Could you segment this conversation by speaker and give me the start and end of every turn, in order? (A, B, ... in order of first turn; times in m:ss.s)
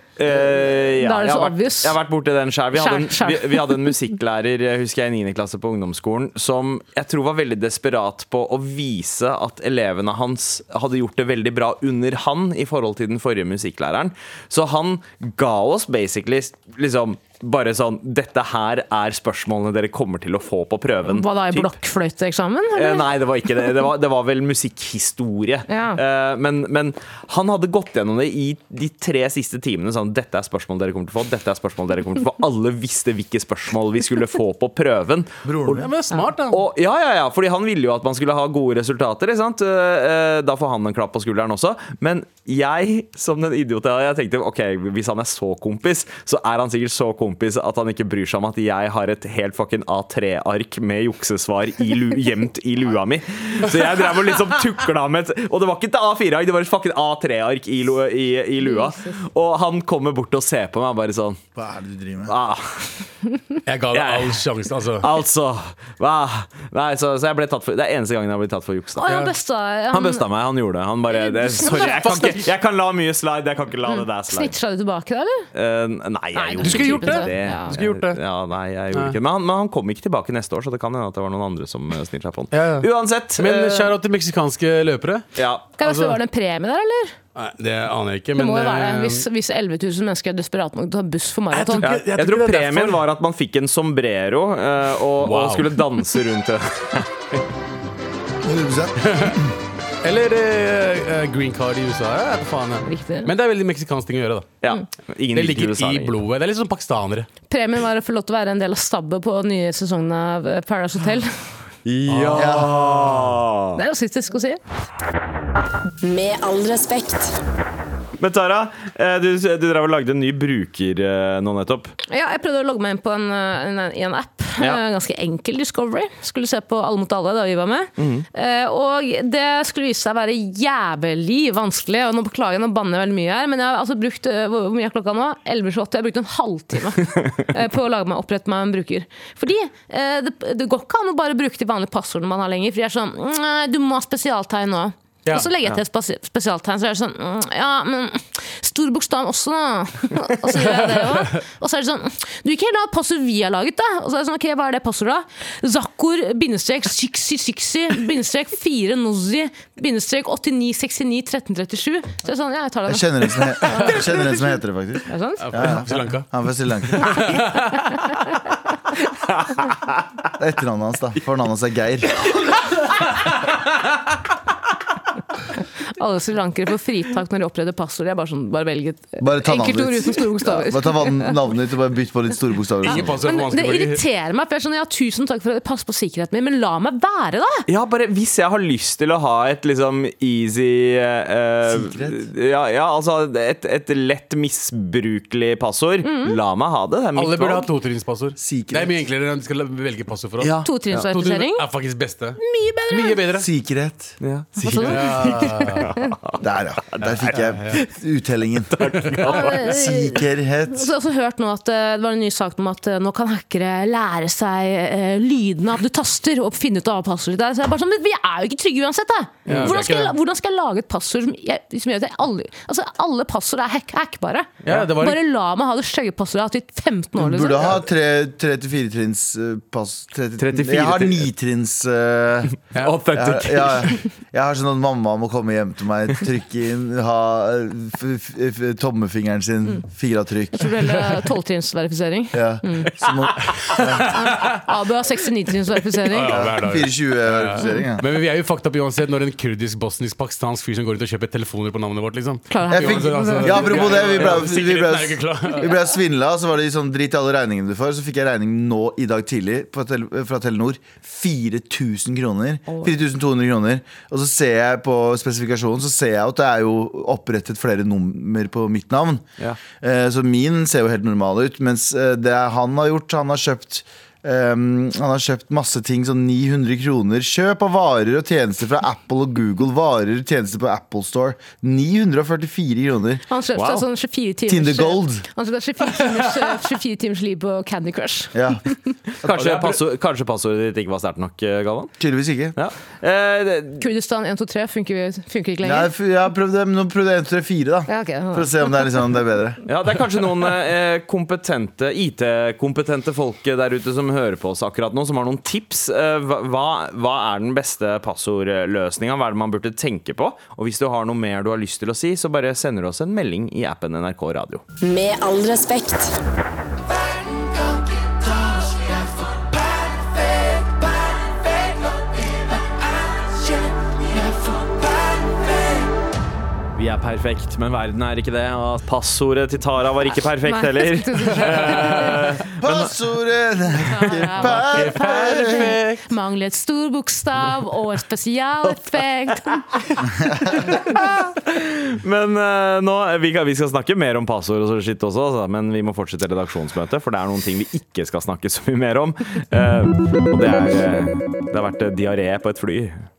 0:00.2-0:21.8 A
0:01.0-0:02.0 B
0:02.7-0:03.8 B
0:21.1-0:23.1 B
0:22.7-0:35.9 A
0:25.7-0:26.0 B
0:35.5-0:35.9 C
0:35.7-0:36.6 D
0:36.5-1:01.4 A
0:58.6-0:59.2 B
1:01.6-1:02.3 C
1:02.3-1:02.9 A
1:03.7-1:05.1 D
1:03.9-1:04.4 A
1:05.0-1:09.1 A
1:09.0-1:10.2 B
1:09.9-1:14.6 A
1:11.1-1:12.0 B
1:11.6-1:12.5 D
1:13.9-1:15.5 B
1:15.5-1:24.0 A
1:16.4-1:17.7 B
1:16.6-1:18.2 D
1:22.5-1:25.3 D
1:25.4-1:25.7 A
1:25.8-1:27.1 B
1:25.8-1:26.2 D
1:27.4-1:29.3 D
1:28.4-1:31.9 B
1:31.5-1:33.0 D
1:31.8-1:37.1 A
1:35.2-1:35.8 D
1:38.4-1:39.5 C
1:39.1-1:39.4 D
1:40.0-1:44.5 D
1:42.8-1:43.3 B
1:44.6-1:46.2 A
1:45.3-1:47.3 D
1:47.5-1:51.4 B
1:51.8-1:53.8 A
1:52.1-1:53.2 D
1:52.4-1:52.9 C
1:53.8-1:54.6 B
1:56.0-1:57.4 E
1:58.2-2:01.9 A
2:02.1-2:44.0 B
2:08.0-2:08.3 A
2:30.6-2:31.3 D
2:42.9-2:47.2 C
2:45.1-2:45.5 B
2:45.4-2:46.3 D
2:46.9-2:47.9 D
2:50.4-2:52.3 C
2:56.0-3:01.4 B
2:59.2-3:03.2 C
3:02.8-3:04.0 D
3:03.2-3:07.6 B
3:07.7-3:17.7 A
3:11.7-3:12.3 C
3:16.0-3:16.4 B
3:17.2-3:23.5 D
3:18.4-3:19.0 C
3:20.4-3:20.7 A
3:20.6-3:21.6 B
3:22.4-3:23.2 B
3:23.3-3:24.2 C
3:24.2-3:26.4 A
3:24.6-3:26.1 B
3:24.8-3:25.9 D
3:26.4-3:28.8 C
3:27.3-3:27.8 D
3:28.7-3:29.6 A
3:29.3-3:47.7 B
3:29.4-3:30.9 C
3:39.5-3:39.8 A
3:39.5-3:40.2 D
3:44.7-3:45.2 D
3:47.2-3:52.6 C
3:50.4-3:51.3 A
3:52.8-3:53.9 A
3:53.1-4:00.7 C
4:00.6-4:02.9 B
4:02.3-4:04.0 C
4:03.8-4:04.6 D
4:04.1-4:06.4 B
4:06.1-4:15.7 D
4:06.3-4:08.0 C
4:12.5-4:14.0 B
4:12.7-4:29.2 C
4:29.8-4:43.2 C
4:43.3-4:48.7 B
4:43.6-4:43.8 A
4:44.5-4:45.2 C
4:48.3-4:48.6 C
4:49.2-4:51.9 A
4:49.3-4:49.8 D
4:52.0-4:52.6 C
4:52.6-4:53.8 A
4:53.8-4:55.9 B
4:55.6-4:59.6 C
4:57.9-4:58.9 B
4:59.7-5:14.6 A
5:14.8-5:16.2 E
5:26.8-5:32.9 A
5:30.4-5:32.2 B
5:31.4-5:32.2 D
5:32.6-5:35.8 C
5:33.9-5:39.6 B
5:34.6-5:36.0 D
5:40.7-5:53.0 A